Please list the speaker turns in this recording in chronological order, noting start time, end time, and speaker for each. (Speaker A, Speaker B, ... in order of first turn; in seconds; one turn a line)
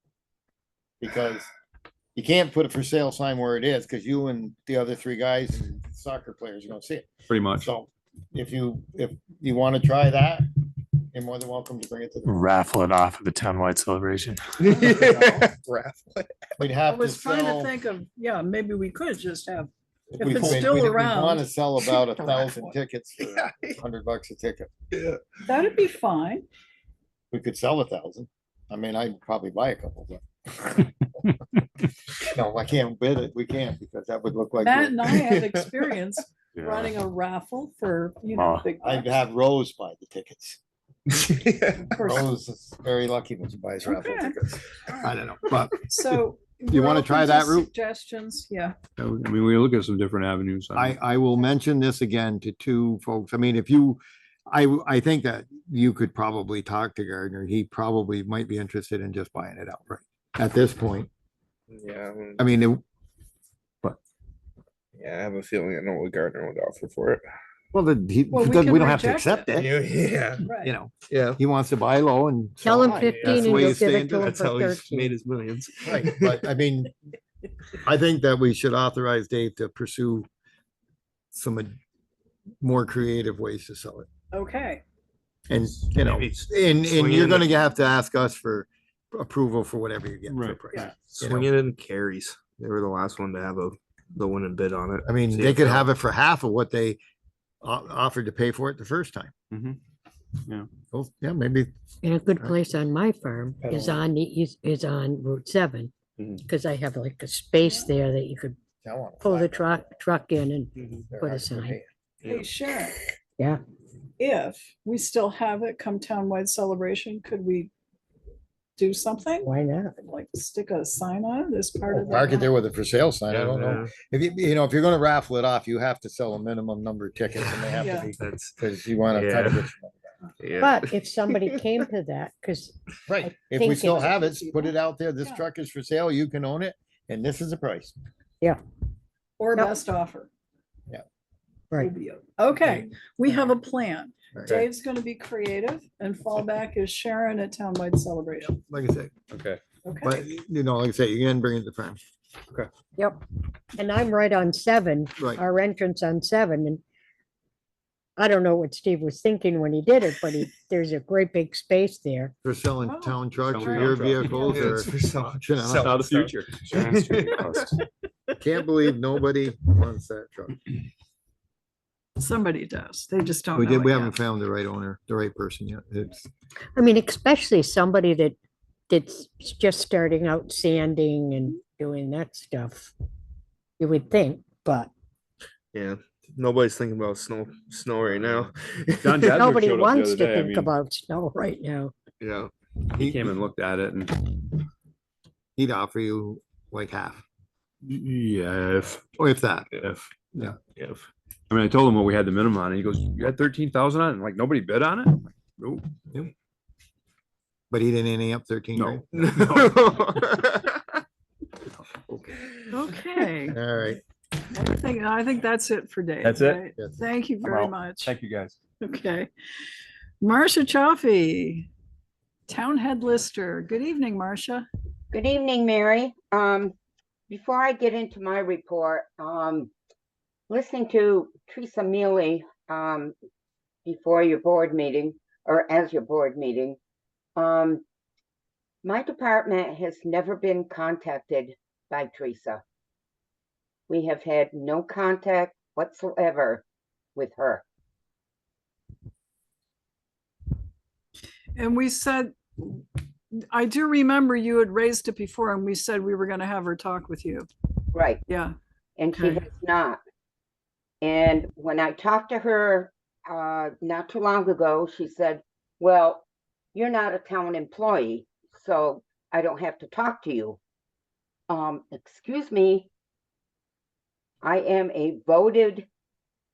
Speaker A: 1.0-1.5
Speaker A: 2.1-10.5
Speaker B: 7.3-7.7
Speaker A: 11.1-12.5
Speaker C: 12.3-14.3
Speaker D: 14.8-16.3
Speaker A: 16.6-17.7
Speaker E: 16.9-22.7
Speaker A: 20.1-24.7
Speaker D: 23.4-23.7
Speaker D: 24.9-25.3
Speaker E: 25.4-26.5
Speaker A: 27.3-30.9
Speaker A: 32.2-35.4
Speaker E: 34.6-39.1
Speaker D: 35.2-35.6
Speaker C: 36.6-36.9
Speaker C: 38.3-38.6
Speaker A: 38.8-40.6
Speaker D: 41.1-41.9
Speaker E: 41.9-42.3
Speaker A: 42.0-45.9
Speaker E: 43.8-44.4
Speaker E: 45.9-48.8
Speaker A: 46.7-47.7
Speaker B: 49.0-51.0
Speaker A: 50.8-61.1
Speaker D: 61.7-62.4
Speaker A: 62.4-62.8
Speaker D: 65.0-67.2
Speaker A: 67.7-69.8
Speaker E: 68.3-69.6
Speaker D: 69.6-70.5
Speaker E: 70.4-70.8
Speaker A: 70.5-74.3
Speaker D: 71.1-71.4
Speaker F: 72.6-75.1
Speaker D: 73.0-76.5
Speaker A: 75.8-76.9
Speaker A: 77.8-80.3
Speaker A: 81.3-81.8
Speaker A: 82.6-84.1
Speaker E: 84.3-84.8
Speaker A: 85.5-91.5
Speaker D: 86.0-87.5
Speaker B: 90.3-90.9
Speaker D: 91.0-95.9
Speaker A: 95.0-97.0
Speaker A: 97.6-99.3
Speaker B: 99.5-99.8
Speaker A: 100.9-101.7
Speaker F: 102.0-105.9
Speaker F: 106.5-108.6
Speaker E: 107.6-107.9
Speaker A: 108.8-109.8
Speaker F: 109.2-111.8
Speaker A: 111.1-111.9
Speaker D: 112.2-112.5
Speaker E: 112.3-113.0
Speaker E: 114.2-117.7
Speaker E: 118.8-122.5
Speaker F: 119.4-120.0
Speaker A: 121.9-130.1
Speaker D: 123.3-123.9
Speaker E: 127.8-128.1
Speaker D: 128.2-128.6
Speaker D: 129.1-129.7
Speaker D: 130.4-131.6
Speaker F: 130.6-134.4
Speaker A: 133.1-137.9
Speaker E: 134.3-135.4
Speaker E: 139.4-140.3
Speaker E: 141.8-148.6
Speaker A: 148.7-149.1
Speaker B: 149.3-149.6
Speaker E: 149.8-150.3
Speaker A: 150.0-152.0
Speaker F: 153.8-156.8
Speaker F: 158.2-162.3
Speaker A: 162.4-166.1
Speaker E: 162.8-164.7
Speaker B: 163.5-164.4
Speaker D: 164.4-167.1
Speaker B: 165.8-167.6
Speaker C: 166.9-167.6
Speaker E: 167.2-167.7
Speaker A: 168.4-170.6
Speaker E: 172.2-174.2
Speaker A: 173.6-176.3
Speaker F: 176.8-178.4
Speaker F: 178.9-182.9
Speaker F: 183.8-184.9
Speaker D: 185.7-189.4
Speaker B: 188.1-188.5
Speaker B: 189.0-190.7
Speaker F: 189.3-191.9
Speaker D: 192.2-192.5
Speaker B: 192.9-194.2
Speaker A: 193.0-193.3
Speaker A: 195.6-197.2
Speaker B: 197.8-199.1
Speaker A: 199.2-199.7
Speaker B: 199.8-200.1
Speaker D: 200.8-201.1
Speaker B: 201.5-205.8
Speaker A: 207.7-209.0
Speaker B: 208.8-209.8
Speaker D: 209.1-211.0
Speaker E: 212.7-213.6
Speaker A: 213.5-214.0
Speaker E: 214.5-218.1
Speaker B: 216.2-216.7
Speaker B: 217.4-218.6
Speaker E: 218.8-219.3
Speaker E: 220.2-221.7
Speaker E: 222.5-224.7
Speaker G: 225.1-226.8
Speaker G: 227.3-229.7
Speaker G: 230.5-233.1
Speaker G: 233.8-236.8
Speaker G: 237.4-237.8
Speaker G: 238.8-242.6
Speaker G: 243.9-246.7
Speaker G: 247.2-247.6
Speaker E: 251.6-252.9
Speaker E: 253.5-257.5
Speaker G: 257.9-258.2
Speaker E: 258.3-258.6
Speaker G: 259.0-260.0
Speaker E: 259.1-259.4
Speaker G: 261.0-270.6
Speaker G: 271.5-272.9
Speaker G: 274.4-275.9